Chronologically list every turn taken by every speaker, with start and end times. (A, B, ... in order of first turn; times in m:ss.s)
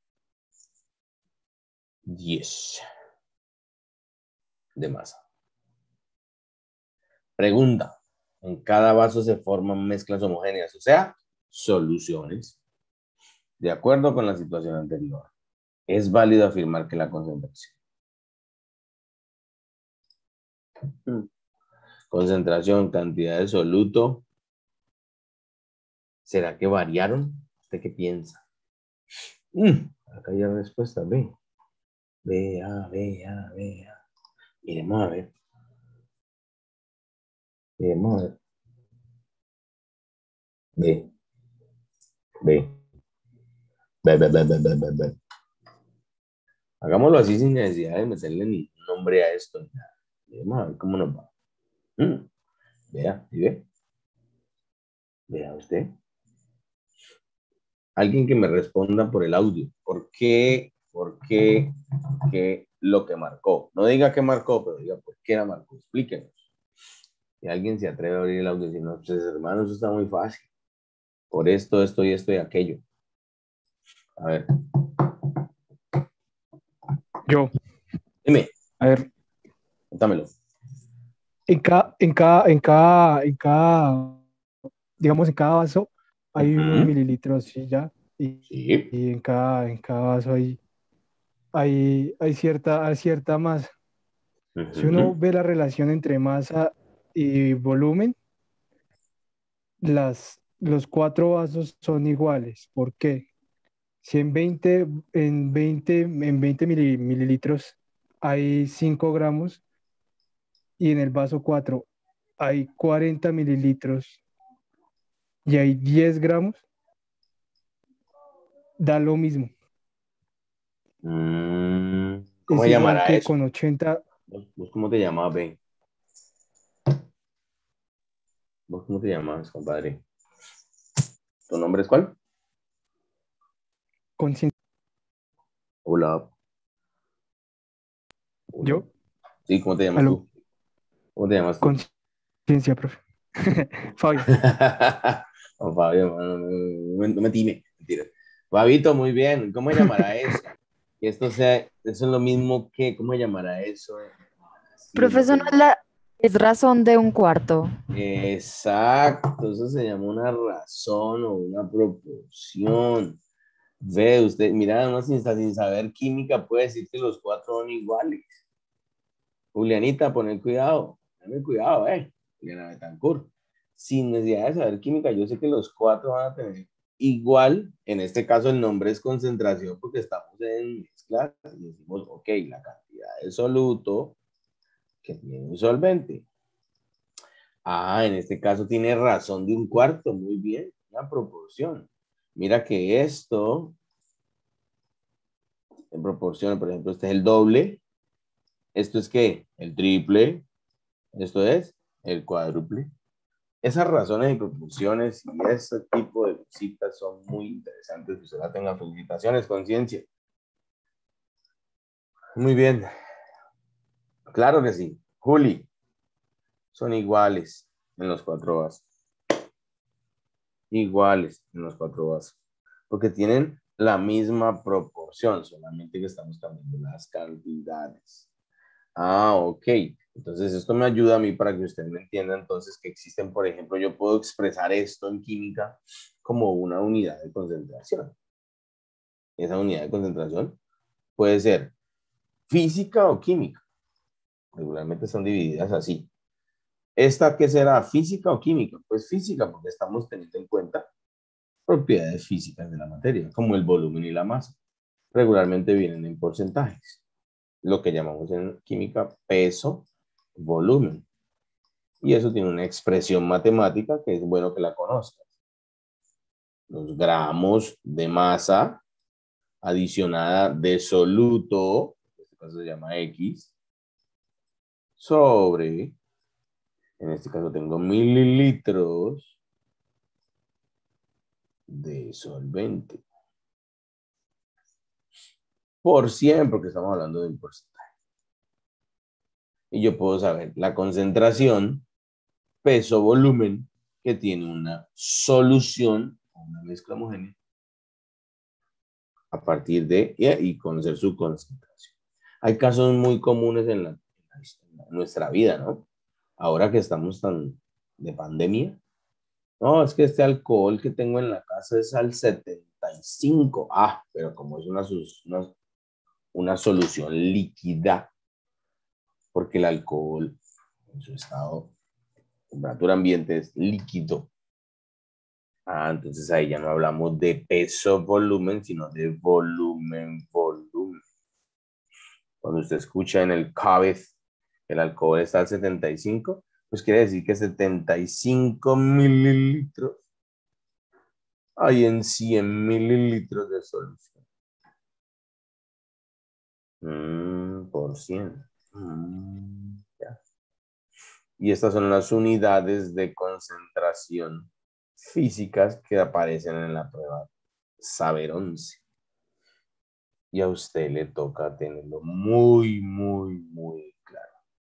0:02.1-0:02.8 A
0:04.8-0:05.2 A
0:07.4-0:12.6 A
0:13.6-0:15.3 A
0:15.9-0:17.7 A
0:22.1-0:24.2 A
0:26.2-0:28.4 A
0:29.5-0:31.3 A
0:32.2-0:34.0 A
0:34.6-0:35.3 A
0:37.8-0:38.4 A
0:40.8-0:41.1 A
0:42.4-0:42.8 A
0:44.0-0:45.2 A
0:46.8-0:51.3 A
0:52.0-0:52.3 A
0:52.9-0:53.6 A
0:55.3-0:55.9 A
0:58.0-1:01.7 A
1:02.3-1:06.4 A
1:07.4-1:10.5 A
1:11.3-1:12.8 A
1:14.2-1:15.1 A
1:17.3-1:17.5 B
1:18.2-1:18.5 A
1:18.8-1:19.1 B
1:19.9-1:20.3 A
1:21.5-1:24.2 B
1:25.0-1:28.4 B
1:26.4-1:26.9 A
1:28.5-1:28.9 A
1:28.9-1:30.6 B
1:31.5-1:33.7 B
1:34.6-1:35.1 A
1:34.7-1:38.1 B
1:39.8-1:43.2 B
1:44.0-1:49.6 B
1:50.8-1:51.9 B
1:52.4-1:54.2 B
1:55.5-1:56.6 B
1:58.8-1:59.5 B
2:01.0-2:03.3 A
2:02.5-2:04.0 B
2:04.3-2:05.6 A
2:08.7-2:10.0 A
2:11.5-2:12.1 A
2:14.2-2:14.5 B
2:15.8-2:16.3 A
2:18.5-2:18.9 A
2:19.5-2:20.2 A
2:20.0-2:20.2 B
2:21.2-2:21.8 A
2:22.5-2:24.3 B
2:24.3-2:34.1 A
2:34.8-2:35.7 A
2:35.0-2:37.7 C
2:37.9-2:43.2 A
2:43.8-2:48.4 A
2:49.5-3:04.2 A
3:05.0-3:06.2 A
3:07.6-3:13.8 A
3:15.9-3:17.8 A
3:18.7-3:20.4 A
3:21.2-3:22.9 A
3:23.6-3:30.0 A
3:32.4-3:32.9 A
3:34.3-3:35.7 A
3:36.7-3:38.8 A
3:40.7-3:42.4 A
3:42.9-3:48.3 A
3:49.0-3:58.1 A
3:59.4-4:00.6 A
4:01.2-4:01.7 A
4:02.5-4:03.6 A
4:04.5-4:06.1 A
4:07.0-4:10.9 A
4:11.7-4:14.5 A
4:15.1-4:17.0 A
4:17.6-4:21.0 A
4:22.0-4:25.2 A
4:26.7-4:28.8 A
4:29.6-4:33.5 A
4:35.0-4:36.0 A
4:37.0-4:39.4 A
4:41.7-4:43.0 A
4:45.8-4:47.9 A
4:49.7-4:51.8 A
4:52.6-4:57.3 A
4:59.3-5:01.9 A
5:02.4-5:05.8 A
5:06.4-5:08.8 A
5:09.6-5:15.5 A
5:16.3-5:18.1 A
5:19.3-5:20.4 A
5:20.9-5:21.7 A
5:22.5-5:24.3 A
5:25.7-5:31.0 A
5:32.4-5:34.1 A
5:34.7-5:40.0 A
5:41.6-5:44.1 A
5:46.8-5:50.2 A
5:51.4-5:57.3 A
5:57.8-5:58.8 A
6:00.3-6:04.3 A